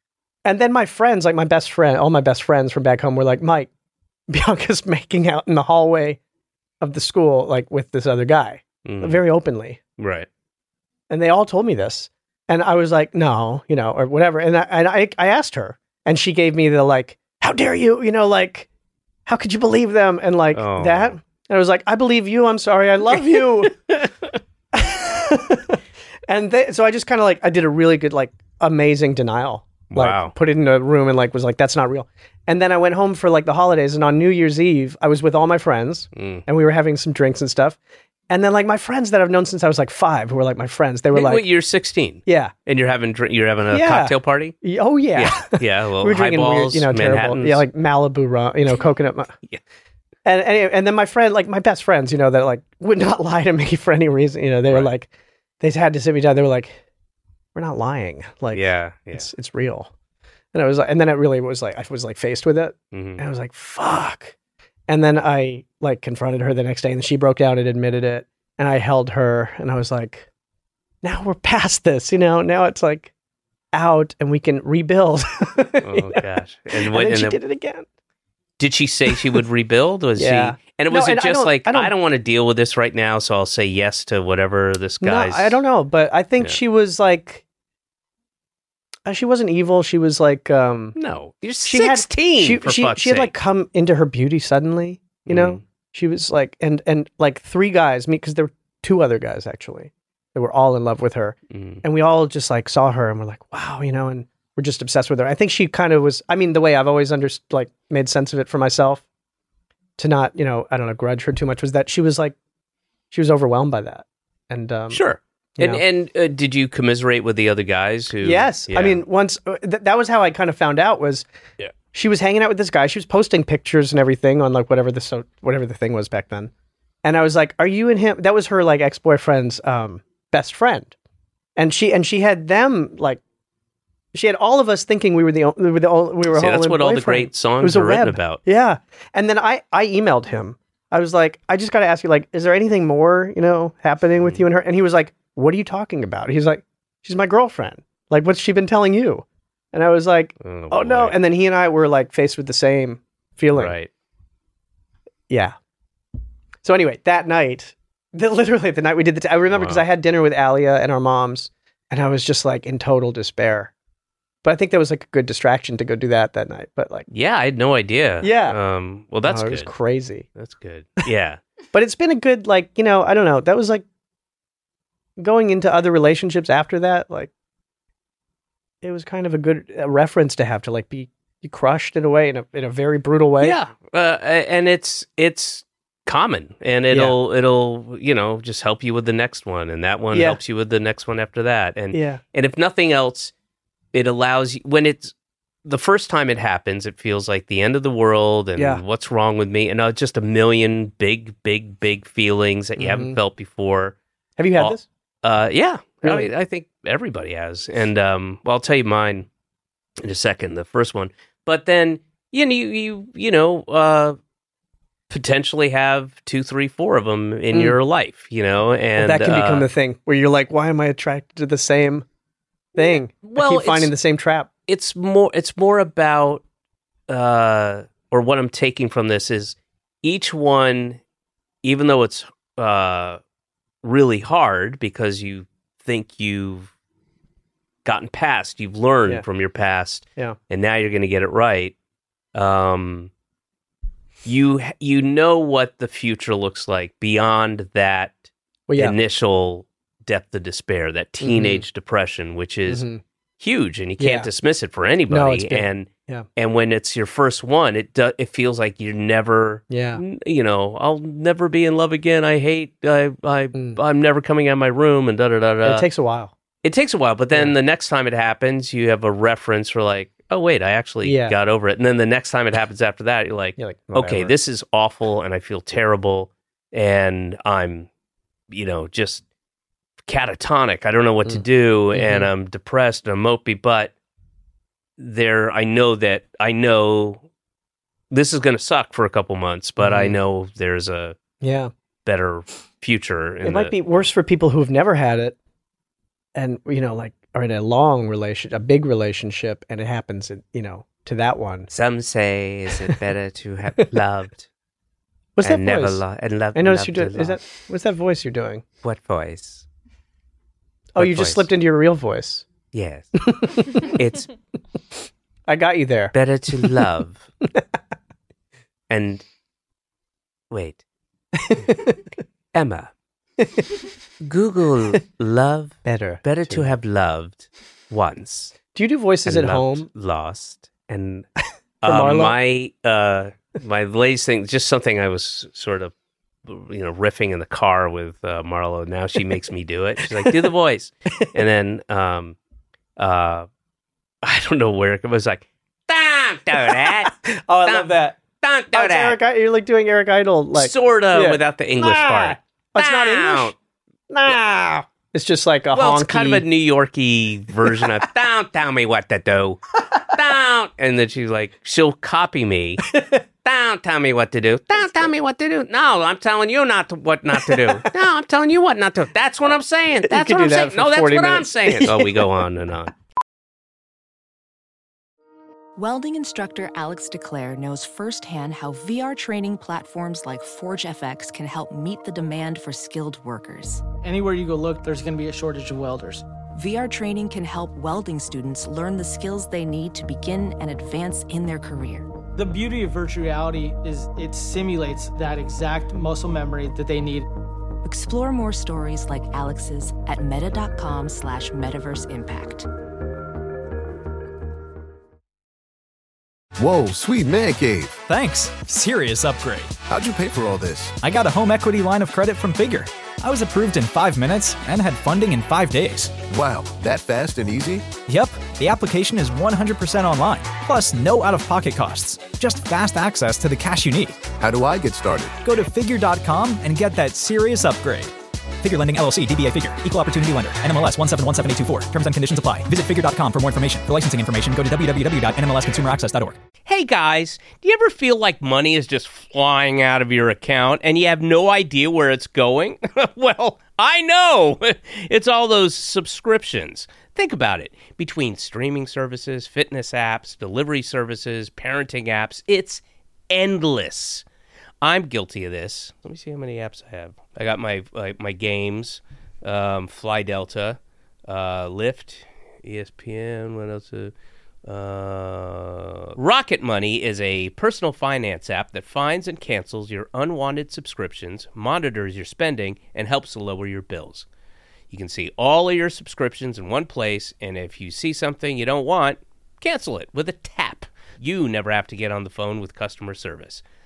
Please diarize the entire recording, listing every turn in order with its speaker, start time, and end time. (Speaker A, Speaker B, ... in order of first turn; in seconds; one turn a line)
Speaker A: 0.5-3.7
Speaker A: 4.3-6.2
Speaker A: 6.8-9.8
Speaker B: 8.8-9.2
Speaker B: 10.0-10.3
Speaker A: 11.1-18.7
Speaker A: 19.3-23.8
Speaker B: 20.5-21.1
Speaker B: 23.1-24.4
Speaker A: 24.7-25.8
Speaker A: 26.3-37.8
Speaker B: 29.9-30.3
Speaker B: 36.1-36.4
Speaker A: 38.3-41.5
Speaker B: 41.1-44.6
Speaker A: 42.3-42.5
Speaker A: 43.7-49.4
Speaker B: 45.1-47.6
Speaker A: 50.2-55.1
Speaker A: 55.6-56.8
Speaker A: 57.5-59.9
Speaker B: 58.5-59.3
Speaker A: 60.5-64.3
Speaker B: 62.9-63.2
Speaker A: 64.9-70.3
Speaker A: 71.0-73.1
Speaker A: 73.7-77.9
Speaker B: 75.8-77.4
Speaker B: 78.6-85.6
Speaker A: 80.2-81.9
Speaker A: 85.0-87.4
Speaker A: 89.1-91.0
Speaker B: 91.0-93.3
Speaker A: 91.6-109.0
Speaker B: 95.3-95.6
Speaker B: 101.5-101.8
Speaker A: 110.0-112.4
Speaker A: 113.1-115.0
Speaker B: 114.9-119.0
Speaker A: 118.2-121.3
Speaker A: 121.9-126.5
Speaker A: 127.0-130.9
Speaker A: 131.6-133.2
Speaker A: 134.1-153.8
Speaker B: 136.3-138.4
Speaker B: 150.4-151.2
Speaker B: 153.5-153.9
Speaker A: 155.3-155.6
Speaker A: 156.6-163.7
Speaker B: 159.5-159.8
Speaker A: 164.4-167.1
Speaker B: 167.1-169.7
Speaker A: 168.2-168.6
Speaker A: 169.2-170.3
Speaker B: 170.3-171.4
Speaker A: 171.7-173.8
Speaker A: 175.2-177.3
Speaker A: 178.8-183.6
Speaker B: 183.4-193.3
Speaker A: 186.9-187.2
Speaker A: 190.1-190.4
Speaker A: 191.9-192.2
Speaker B: 193.9-195.1
Speaker B: 195.7-204.0
Speaker A: 198.6-198.8
Speaker A: 202.8-203.2
Speaker A: 204.4-204.8
Speaker B: 204.6-209.3
Speaker A: 206.0-206.3
Speaker B: 210.0-214.2
Speaker B: 215.1-219.7
Speaker A: 217.5-217.8
Speaker A: 219.0-222.1
Speaker A: 222.8-224.5
Speaker B: 222.8-223.9
Speaker B: 224.7-226.4
Speaker B: 227.1-231.0
Speaker B: 231.6-233.2
Speaker B: 233.8-236.7
Speaker B: 237.8-241.8
Speaker B: 242.3-243.1
Speaker B: 244.2-252.9
Speaker A: 248.7-249.0
Speaker A: 251.2-251.7
Speaker A: 252.7-253.0
Speaker B: 253.4-265.9
Speaker A: 254.0-254.3
Speaker A: 255.1-256.3
Speaker A: 259.7-260.0
Speaker A: 263.5-263.8
Speaker A: 265.6-266.3
Speaker B: 266.6-277.9
Speaker A: 271.0-271.4
Speaker A: 273.6-274.3
Speaker B: 278.5-279.2
Speaker B: 280.1-283.9
Speaker A: 281.3-282.3
Speaker B: 285.0-287.3
Speaker B: 288.1-291.2
Speaker A: 289.8-290.2
Speaker A: 291.4-291.7
Speaker B: 292.1-293.8
Speaker A: 293.4-295.4
Speaker A: 296.4-301.7
Speaker B: 301.7-304.5
Speaker A: 305.4-306.0
Speaker B: 305.4-307.4
Speaker A: 306.6-308.6
Speaker B: 308.8-309.7
Speaker A: 310.9-312.4
Speaker B: 311.0-311.5
Speaker B: 312.7-314.3
Speaker A: 313.2-313.9
Speaker A: 315.5-316.7
Speaker B: 316.1-317.3
Speaker B: 318.9-319.2
Speaker B: 320.5-320.8
Speaker A: 321.4-322.0
Speaker B: 322.5-322.9
Speaker A: 323.4-323.7
Speaker B: 324.2-328.6
Speaker A: 325.9-326.7
Speaker A: 328.7-329.9
Speaker B: 329.2-331.3
Speaker B: 331.8-335.9
Speaker A: 331.8-332.4
Speaker B: 336.4-342.4
Speaker B: 343.0-343.5
Speaker B: 344.2-349.2
Speaker A: 346.7-348.2
Speaker A: 348.7-353.6
Speaker B: 350.6-353.6
Speaker A: 354.1-356.4
Speaker B: 355.7-362.9
Speaker A: 362.9-363.2
Speaker B: 363.4-372.9
Speaker A: 367.4-367.8
Speaker A: 370.1-372.3
Speaker C: 375.8-383.8
Speaker D: 384.0-386.2
Speaker C: 386.5-392.1
Speaker D: 392.4-397.3
Speaker C: 397.8-402.7
Speaker E: 406.6-408.0
Speaker F: 408.1-409.7
Speaker E: 409.9-411.0
Speaker F: 411.0-416.2
Speaker E: 416.3-417.9
Speaker F: 418.1-424.2
Speaker E: 424.4-425.4
Speaker F: 425.4-436.4
Speaker B: 436.6-454.2
Speaker B: 454.8-464.1
Speaker B: 464.6-474.3
Speaker B: 474.9-483.6